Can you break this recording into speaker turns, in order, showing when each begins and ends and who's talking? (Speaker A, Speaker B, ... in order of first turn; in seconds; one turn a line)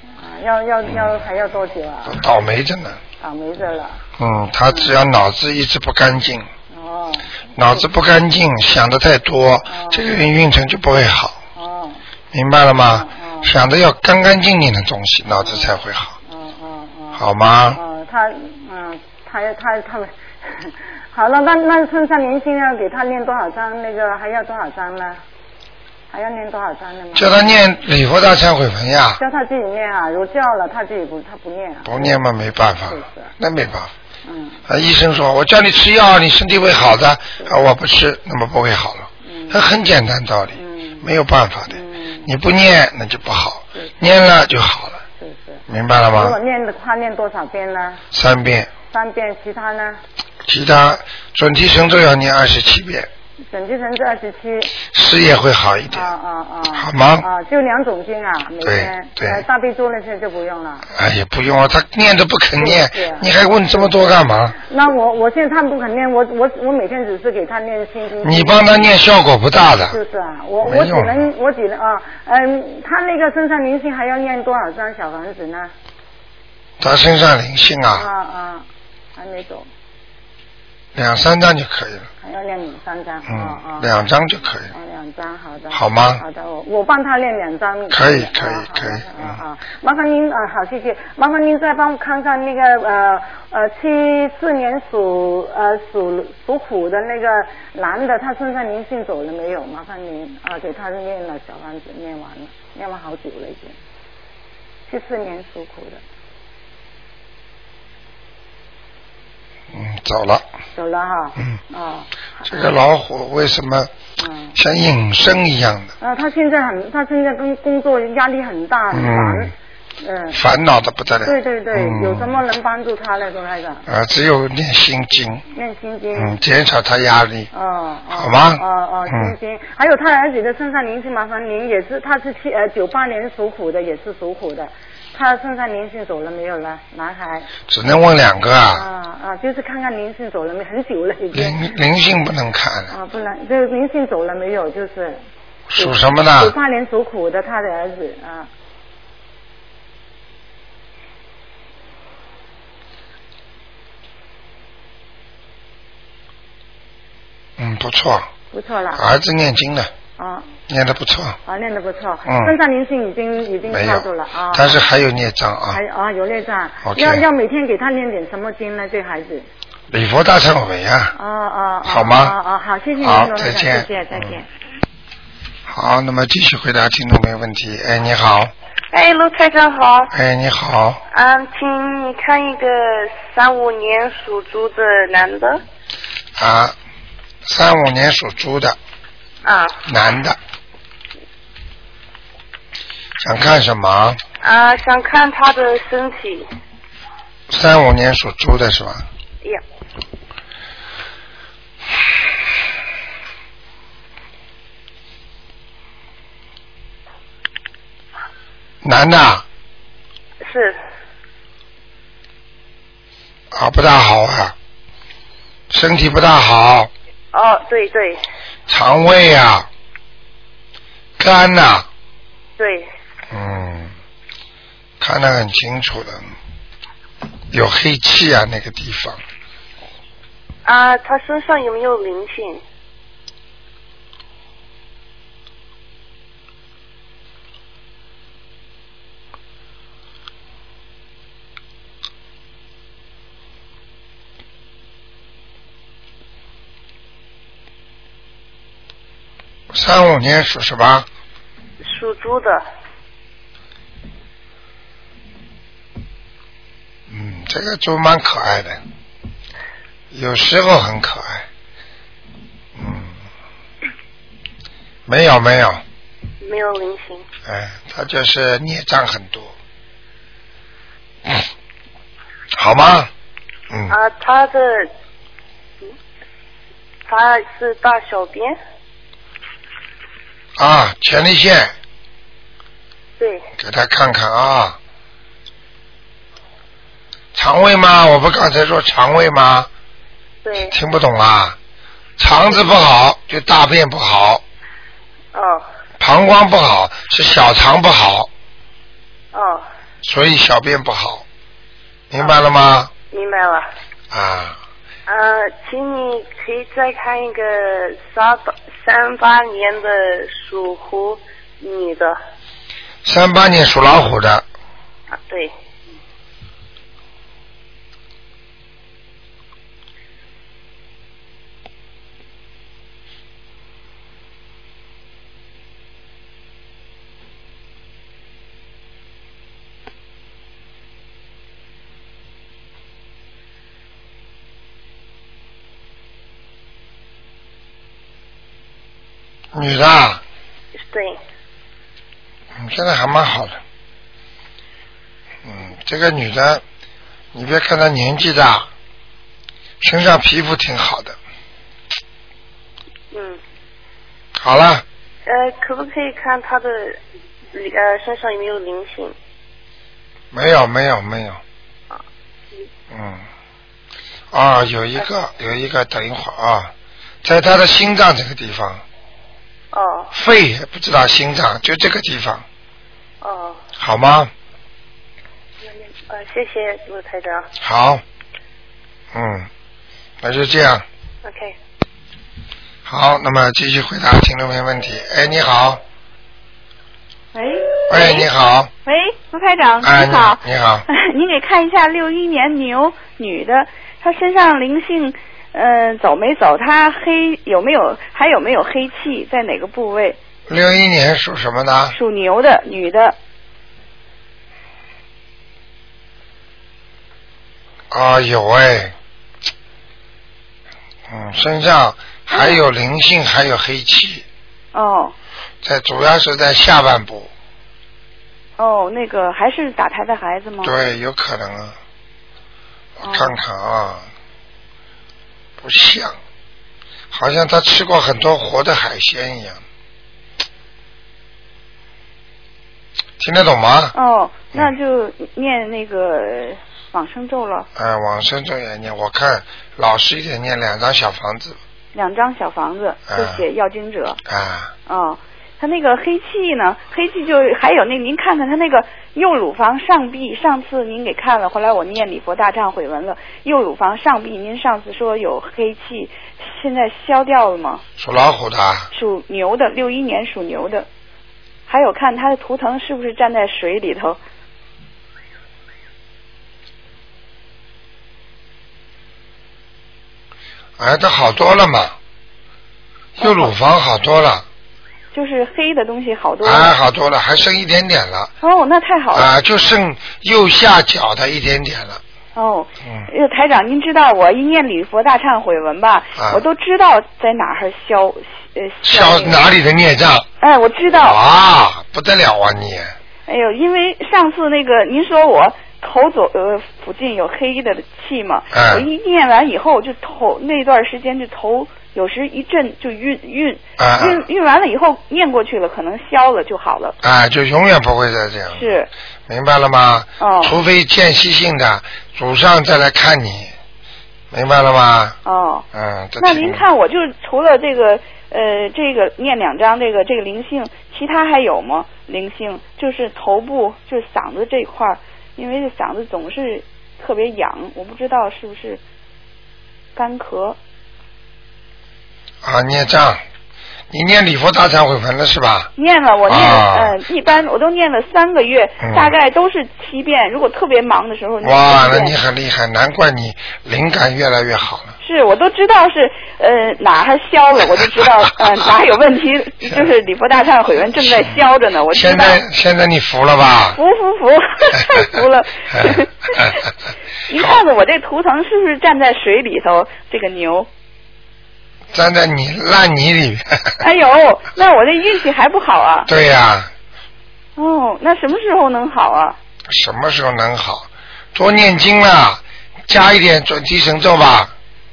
Speaker A: 0.2-2.2
Speaker B: 0.9-1.1
Speaker B: 2.0-3.0
Speaker A: 3.2-4.0
Speaker B: 4.2-6.5
Speaker A: 4.7-5.0
Speaker A: 6.7-7.8
Speaker B: 7.5-11.4
Speaker A: 9.7-10.3
Speaker A: 11.5-12.0
Speaker B: 12.3-16.1
Speaker A: 12.9-13.5
Speaker A: 15.3-25.2
Speaker B: 17.1-17.8
Speaker A: 26.1-27.3
Speaker B: 27.1-29.2
Speaker A: 29.2-32.1
Speaker B: 31.8-33.9
Speaker A: 32.9-33.3
Speaker A: 34.2-34.6
Speaker B: 34.7-45.0
Speaker A: 39.2-39.6
Speaker A: 40.5-41.1
Speaker A: 41.7-42.3
Speaker A: 45.2-48.0
Speaker B: 45.7-46.4
Speaker B: 48.1-48.7
Speaker A: 48.9-50.0
Speaker B: 50.5-53.1
Speaker A: 53.5-54.8
Speaker B: 54.8-56.1
Speaker A: 55.9-60.9
Speaker B: 56.7-57.3
Speaker B: 58.6-59.4
Speaker B: 60.9-64.6
Speaker A: 62.6-68.9
Speaker B: 68.2-70.0
Speaker A: 69.9-75.7
Speaker B: 70.6-71.3
Speaker B: 76.8-78.1
Speaker A: 77.9-79.7
Speaker B: 80.9-82.1
Speaker A: 82.2-83.9
Speaker B: 83.3-84.7
Speaker A: 84.7-103.8
Speaker B: 85.7-86.2
Speaker B: 87.9-89.4
Speaker A: 104.9-106.0
Speaker B: 109.7-110.4
Speaker A: 110.7-112.7
Speaker B: 112.5-113.9
Speaker A: 114.2-114.6
Speaker B: 114.5-115.9
Speaker A: 116.0-120.4
Speaker B: 118.9-119.5
Speaker B: 120.3-122.4
Speaker A: 121.2-123.8
Speaker B: 123.9-125.4
Speaker A: 125.5-126.4
Speaker B: 126.1-127.5
Speaker A: 127.5-137.5
Speaker B: 128.1-129.3
Speaker B: 137.7-138.9
Speaker A: 138.7-141.6
Speaker B: 141.3-142.9
Speaker A: 142.9-145.2
Speaker B: 145.7-146.5
Speaker A: 145.8-148.5
Speaker B: 157.6-158.3
Speaker A: 158.5-159.0
Speaker B: 158.9-159.9
Speaker A: 160.2-160.5
Speaker B: 160.7-161.4
Speaker A: 161.4-164.8
Speaker B: 162.2-162.6
Speaker B: 163.7-165.8
Speaker A: 165.7-169.4
Speaker B: 166.8-167.2
Speaker B: 169.9-171.1
Speaker A: 171.1-174.4
Speaker B: 171.8-172.4
Speaker B: 173.0-174.4
Speaker B: 175.7-178.5
Speaker C: 178.9-180.1
Speaker B: 180.1-181.0
Speaker C: 181.1-185.6
Speaker B: 186.4-186.7
Speaker B: 187.4-188.8
Speaker C: 189.4-189.8
Speaker B: 189.8-190.4
Speaker B: 193.2-194.2
Speaker C: 194.4-196.5
Speaker B: 197.5-199.1
Speaker B: 208.8-209.4
Speaker C: 210.4-210.8
Speaker B: 213.5-214.5
Speaker B: 215.7-216.9
Speaker C: 217.3-218.2
Speaker B: 218.7-219.7
Speaker B: 221.2-221.9
Speaker C: 222.6-222.9
Speaker B: 223.3-223.9
Speaker B: 225.0-226.3
Speaker B: 227.5-229.2
Speaker C: 230.6-232.6
Speaker B: 249.7-251.1
Speaker C: 251.8-252.6
Speaker B: 257.1-258.8
Speaker B: 260.1-261.4
Speaker B: 262.8-263.1
Speaker B: 265.1-265.8
Speaker C: 266.4-267.3
Speaker B: 267.4-269.5
Speaker B: 272.6-273.1
Speaker B: 273.7-273.9
Speaker C: 273.9-274.9
Speaker C: 277.1-278.6
Speaker B: 280.6-281.7
Speaker C: 283.2-283.4
Speaker B: 283.6-284.8
Speaker B: 287.3-289.7
Speaker C: 290.4-290.7
Speaker B: 290.7-291.6
Speaker B: 292.2-294.4
Speaker C: 292.3-292.7
Speaker C: 295.3-295.6
Speaker B: 296.0-298.3
Speaker C: 299.3-299.6
Speaker B: 300.0-301.2
Speaker B: 302.1-302.9
Speaker C: 303.1-303.7
Speaker B: 304.1-304.6
Speaker C: 305.1-312.2
Speaker B: 313.0-314.4
Speaker C: 315.1-315.5
Speaker B: 339.5-340.2
Speaker C: 340.8-341.2
Speaker B: 342.6-343.6
Speaker B: 345.4-346.6
Speaker B: 347.3-348.7
Speaker B: 349.8-351.2
Speaker C: 353.1-353.4
Speaker B: 354.4-354.8
Speaker C: 355.2-357.0
Speaker C: 357.5-359.1
Speaker B: 360.3-361.4
Speaker B: 362.9-363.2
Speaker B: 364.3-366.7
Speaker B: 367.2-368.8
Speaker C: 369.7-370.1
Speaker B: 370.1-372.4
Speaker C: 373.2-373.6
Speaker B: 373.8-374.3
Speaker C: 375.6-377.5
Speaker B: 377.6-378.0
Speaker B: 379.1-379.5
Speaker B: 380.2-380.8
Speaker C: 381.2-381.6
Speaker B: 382.9-385.8
Speaker D: 387.3-388.3
Speaker B: 387.9-388.7
Speaker D: 388.8-400.2
Speaker B: 389.8-390.8
Speaker B: 400.5-402.0
Speaker D: 401.9-403.1
Speaker B: 407.9-408.9
Speaker B: 411.1-414.2
Speaker D: 412.3-412.6
Speaker D: 414.7-415.1
Speaker B: 415.6-417.3
Speaker D: 418.6-420.8
Speaker B: 420.6-421.8
Speaker B: 423.0-424.1
Speaker D: 423.0-423.3
Speaker B: 425.6-426.2
Speaker B: 427.1-429.6
Speaker B: 433.2-433.9
Speaker D: 433.9-437.7
Speaker B: 437.7-441.6
Speaker D: 441.9-444.2
Speaker B: 443.1-443.4
Speaker B: 444.2-444.7
Speaker D: 444.9-457.8
Speaker B: 458.0-458.9
Speaker D: 458.9-460.9
Speaker D: 461.7-464.2
Speaker B: 470.8-471.9
Speaker B: 473.2-474.4
Speaker D: 473.2-473.5
Speaker D: 475.1-476.8
Speaker B: 476.4-478.3
Speaker D: 478.4-479.3
Speaker B: 479.1-482.0
Speaker D: 482.3-489.4
Speaker B: 486.1-486.4
Speaker B: 488.8-490.3
Speaker D: 490.4-491.2
Speaker B: 490.9-492.9
Speaker D: 493.3-507.0
Speaker B: 498.5-498.9
Speaker B: 503.8-504.2
Speaker B: 507.0-508.7
Speaker D: 508.5-508.9
Speaker B: 509.3-513.5
Speaker D: 510.2-510.6
Speaker B: 514.3-515.2
Speaker D: 515.2-515.6
Speaker B: 515.7-516.6
Speaker D: 516.2-528.8
Speaker D: 530.0-530.6
Speaker B: 532.4-533.2
Speaker B: 533.9-535.7
Speaker D: 535.8-542.1
Speaker B: 536.3-537.0
Speaker B: 538.8-539.1
Speaker B: 541.4-544.9
Speaker D: 545.0-552.4
Speaker B: 551.0-553.8
Speaker D: 553.7-556.6
Speaker D: 557.3-560.7
Speaker B: 561.9-563.8
Speaker D: 563.8-566.1
Speaker B: 566.1-566.7
Speaker D: 567.5-569.4
Speaker B: 569.7-574.5